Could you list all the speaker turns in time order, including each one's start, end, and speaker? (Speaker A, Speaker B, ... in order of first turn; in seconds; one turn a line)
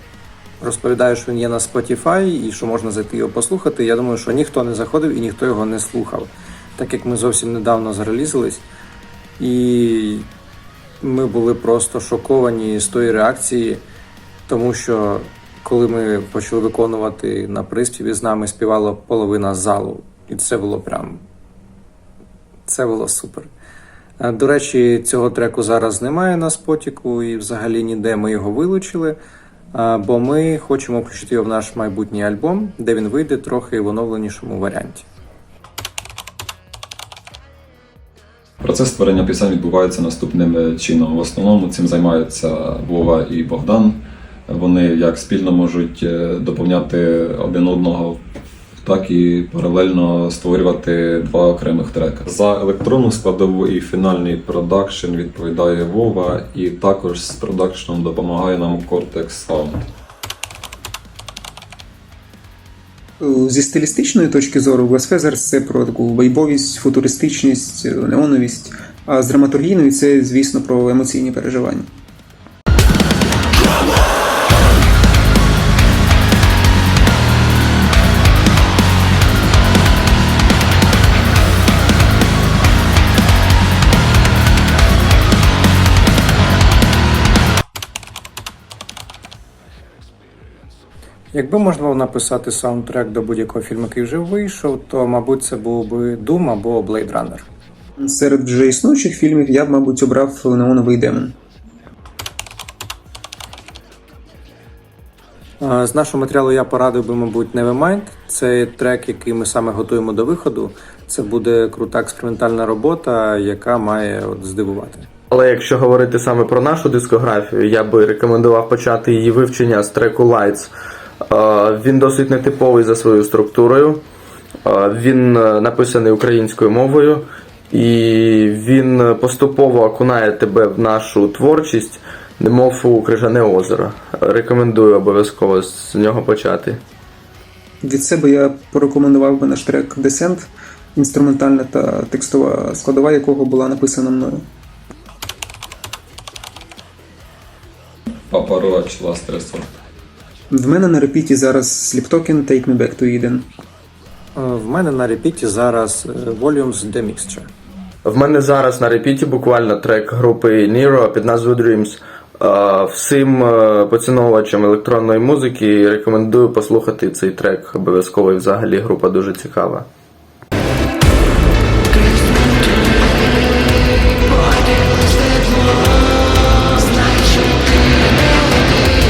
Speaker A: 0.6-8.6
Speaker A: 9.4-10.2
Speaker A: 11.0-13.8
Speaker A: 14.5-21.2
Speaker A: 22.6-23.5
Speaker A: 24.2-29.2
Speaker A: 29.7-35.0
Speaker B: 38.6-48.2
Speaker B: 48.8-59.9
Speaker C: 63.2-71.9
Speaker A: 91.3-97.5
Speaker C: 98.0-101.3
Speaker A: 105.6-115.1
Speaker D: 115.3-120.7
Speaker D: 121.3-124.0
Speaker D: 124.6-136.8
Speaker C: 137.8-144.4
Speaker B: 148.3-149.7
Speaker C: 150.5-153.5
Speaker A: 154.3-157.5
Speaker D: 158.0-169.9